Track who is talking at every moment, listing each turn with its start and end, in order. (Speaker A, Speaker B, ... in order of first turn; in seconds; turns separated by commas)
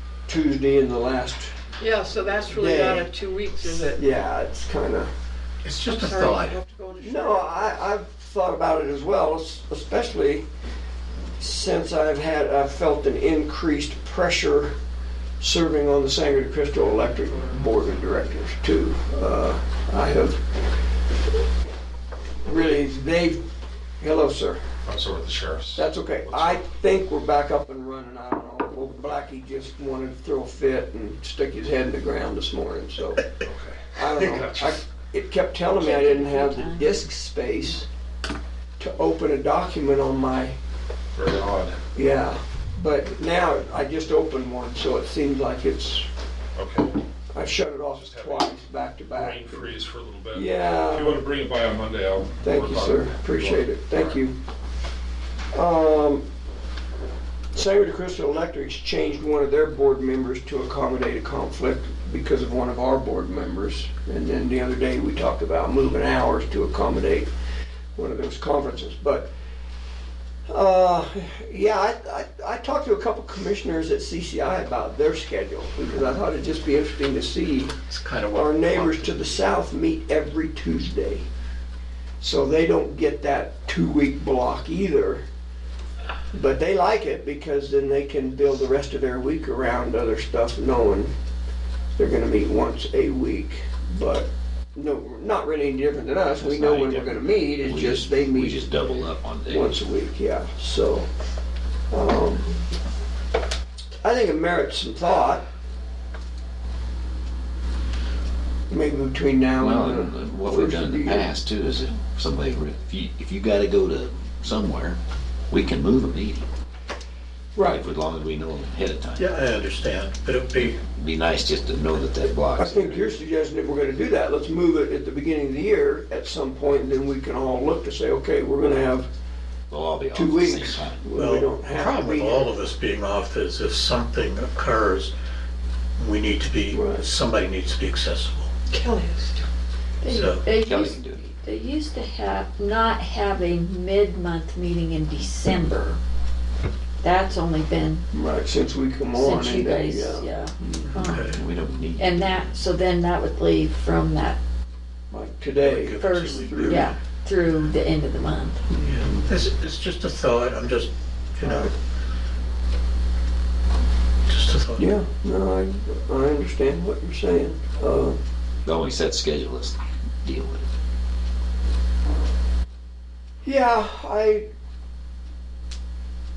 Speaker A: 0.3-1.5, Speaker B: 1.8-4.0, Speaker A: 2.5-3.1, Speaker A: 4.0-5.1, Speaker C: 5.6-6.6, Speaker B: 5.8-7.7, Speaker A: 7.0-10.5, Speaker A: 11.4-14.7, Speaker A: 15.4-20.4, Speaker A: 22.4-23.4, Speaker A: 24.0-24.6, Speaker D: 24.9-26.6, Speaker A: 25.8-33.3, Speaker D: 33.5-34.8, Speaker A: 34.0-37.9, Speaker E: 35.8-37.0, Speaker A: 38.8-40.6, Speaker D: 41.1-41.8, Speaker A: 42.0-46.1, Speaker D: 46.6-46.9, Speaker A: 47.3-49.8, Speaker D: 47.9-48.6, Speaker D: 49.1-53.7, Speaker A: 50.3-51.3, Speaker A: 52.4-54.4, Speaker A: 55.5-56.2, Speaker A: 57.5-67.3, Speaker A: 68.0-69.3, Speaker A: 70.5-77.7, Speaker C: 77.9-79.5, Speaker A: 78.3-81.3, Speaker A: 82.2-85.2, Speaker A: 86.3-91.1, Speaker A: 92.0-98.7, Speaker F: 96.4-99.8, Speaker A: 99.5-101.1, Speaker A: 101.9-102.6, Speaker A: 104.0-105.4, Speaker A: 108.7-111.3, Speaker F: 109.6-115.0, Speaker F: 115.5-116.5, Speaker A: 117.6-117.9, Speaker F: 117.6-119.3, Speaker C: 119.2-120.8, Speaker F: 120.8-123.2, Speaker A: 122.6-129.1, Speaker F: 129.7-131.0, Speaker A: 130.1-132.6, Speaker C: 131.2-135.1, Speaker C: 136.0-138.5, Speaker A: 136.7-137.0, Speaker B: 138.7-139.5, Speaker E: 140.0-146.0, Speaker C: 140.1-140.5, Speaker F: 140.6-141.3, Speaker E: 147.0-148.1, Speaker A: 148.1-150.9, Speaker E: 149.1-151.3, Speaker C: 151.0-151.4, Speaker F: 151.3-152.4, Speaker E: 152.0-154.4, Speaker A: 155.1-156.9, Speaker C: 155.6-156.9, Speaker E: 156.0-158.6, Speaker C: 158.8-161.7, Speaker A: 161.4-161.7, Speaker C: 164.3-165.0, Speaker A: 164.8-168.2, Speaker F: 168.7-170.7, Speaker A: 173.4-174.5